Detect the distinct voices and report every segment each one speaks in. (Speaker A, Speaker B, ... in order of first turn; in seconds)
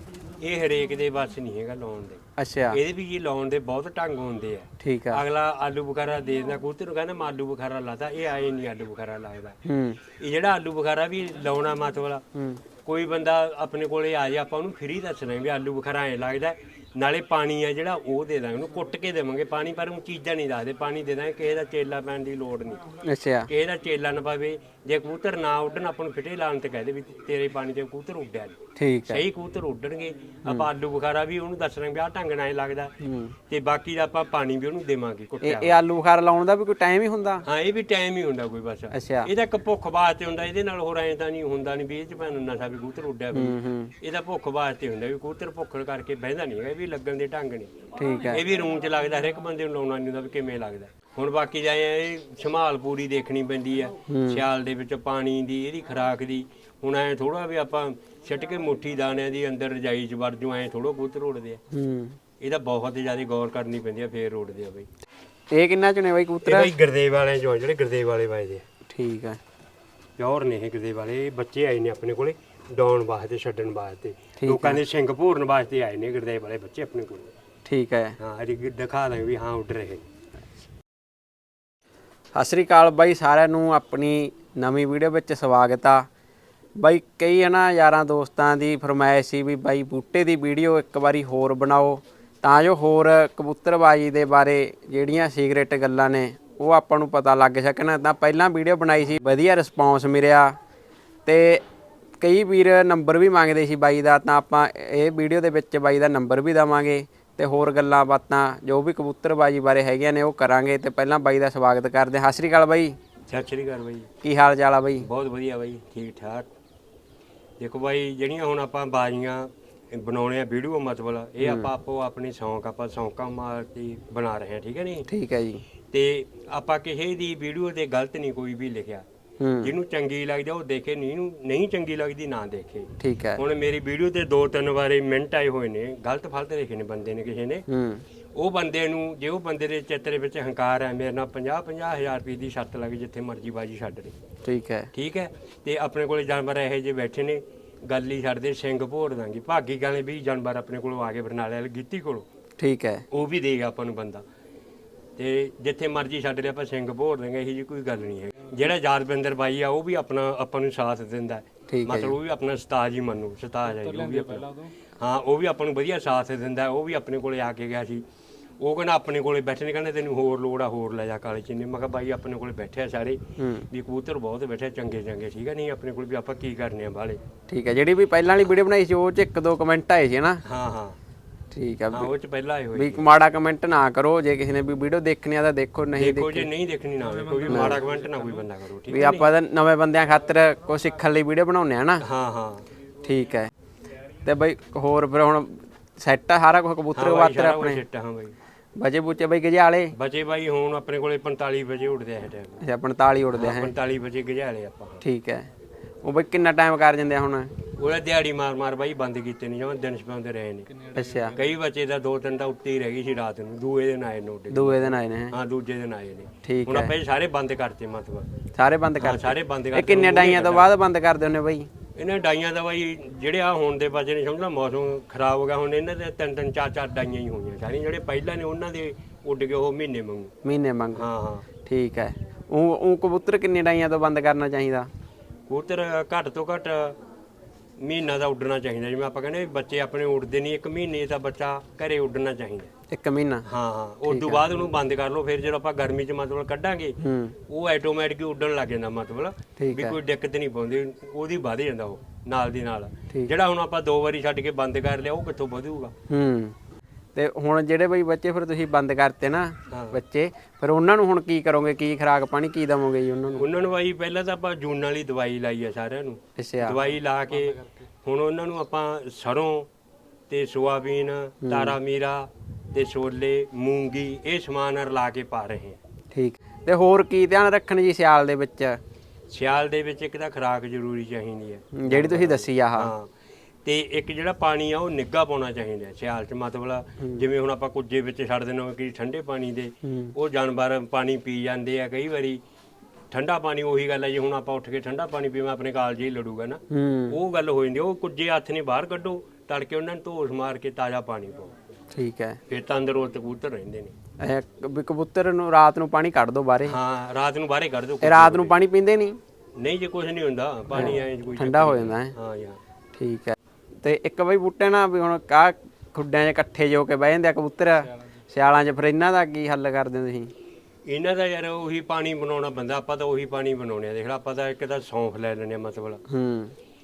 Speaker A: 0.4-9.6, 10.2-12.2, 12.8-22.8, 23.5-32.9, 33.5-35.8, 37.5-47.7, 48.3-61.6, 62.4-64.9, 66.5-68.6, 70.2-77.3, 78.2-80.0, 113.3-114.1, 115.0-116.5, 117.6-125.1, 125.9-129.1, 129.6-137.7, 138.3-144.2, 144.9-152.3, 153.1-154.2, 155.2-168.0, 168.6-177.2, 180.4-181.0, 181.9-183.1, 185.9-189.3, 192.0-192.7, 196.9-198.3, 199.9-202.6, 203.3-205.0, 207.8-210.7, 211.3-218.3, 219.0-220.7, 222.0-230.3, 230.9-231.5, 235.5-237.0, 237.8-242.7, 243.5-255.9, 259.7-260.0, 263.4-269.7, 270.3-275.8, 279.3-283.1, 283.6-292.4, 293.1-301.6, 302.5-303.9, 306.6-308.6, 309.6-312.6, 320.9-326.0
Speaker B: 2.4-2.8, 4.8-5.2, 9.7-10.0, 12.3-12.6, 23.1-23.5, 28.8-29.2, 33.0-33.4, 35.4-37.5, 38.9-39.3, 43.3-43.9, 48.0-48.4, 54.1-54.4, 61.7-62.2, 65.5-66.7, 68.9-69.4, 74.4-74.8, 77.7-78.2, 82.3-86.1, 86.8-100.6, 101.3-101.6, 102.2-113.0, 114.2-115.1, 121.4-121.7, 125.1-125.6, 129.4-129.7, 133.0-133.4, 137.7-138.0, 144.4-144.9, 152.6-153.1, 161.7-162.2, 173.4-173.7, 177.5-180.4, 181.5-182.1, 182.8-186.5, 187.5-187.8, 188.9-192.0, 193.0-193.5, 194.2-197.8, 198.8-199.9, 202.6-203.7, 205.0-205.5, 206.0-207.5, 210.9-211.4, 214.5-215.3, 216.4-216.9, 218.6-221.7, 230.4-231.1, 231.6-234.9, 242.9-243.5, 244.1-244.4, 247.0-247.4, 249.6-249.9, 256.1-256.6, 257.1-263.5, 266.4-266.8, 271.4-271.8, 276.1-278.8, 281.7-282.9, 289.8-290.1, 296.7-297.2, 301.9-302.4, 304.2-306.8, 308.0-309.2, 310.8-312.1, 312.9-320.3, 326.1-326.5